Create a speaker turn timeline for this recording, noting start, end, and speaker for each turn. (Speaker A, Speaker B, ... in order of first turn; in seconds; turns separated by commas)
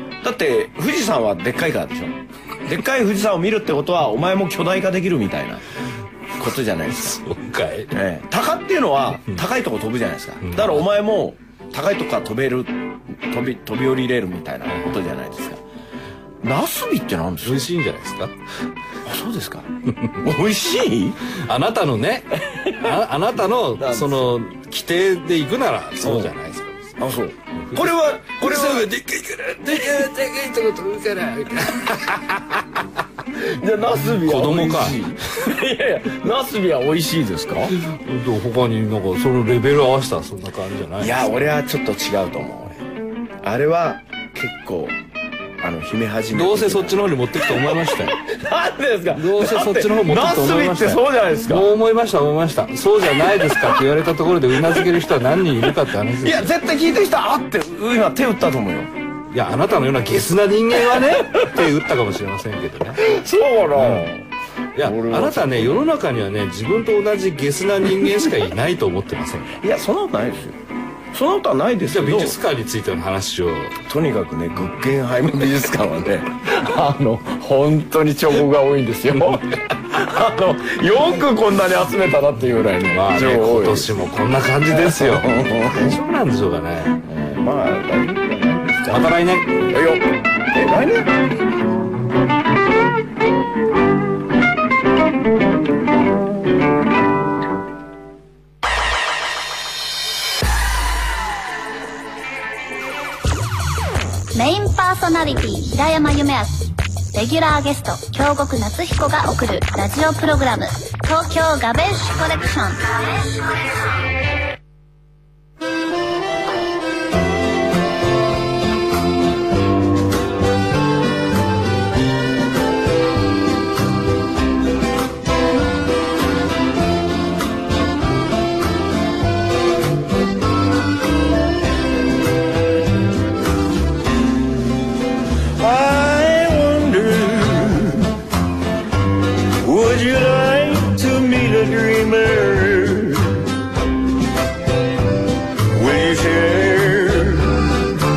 Speaker A: 0.2-5.6, Speaker A: 6.3-7.2, Speaker B: 6.9-7.9, Speaker A: 7.9-15.6, Speaker B: 10.4-10.9, Speaker A: 16.4-17.7, Speaker B: 17.4-18.3, Speaker A: 19.0-21.2, Speaker B: 21.3-27.0, Speaker A: 22.5-22.9, Speaker A: 23.8-24.3, Speaker A: 26.0-26.3, Speaker A: 27.0-28.9, Speaker B: 27.5-32.6, Speaker A: 33.3-37.7, Speaker B: 34.1-35.0, Speaker B: 37.8-41.4, Speaker A: 41.0-42.8, Speaker A: 43.4-45.0, Speaker A: 45.6-51.7, Speaker B: 46.3-48.2, Speaker B: 49.1-56.5, Speaker A: 53.3-53.8, Speaker A: 56.2-58.9, Speaker B: 59.3-63.0, Speaker A: 61.0-61.6, Speaker A: 63.0-64.2, Speaker B: 63.7-64.1, Speaker B: 64.7-69.6, Speaker A: 64.8-65.9, Speaker A: 69.5-70.6, Speaker A: 71.1-72.4, Speaker B: 71.9-73.8, Speaker A: 73.9-83.9, Speaker B: 82.9-87.0, Speaker A: 84.7-86.0, Speaker A: 87.0-91.3, Speaker B: 88.8-89.7, Speaker C: 104.3-113.8, Speaker A: 135.6-138.2, Speaker A: 139.6-143.5, Speaker A: 145.6-147.9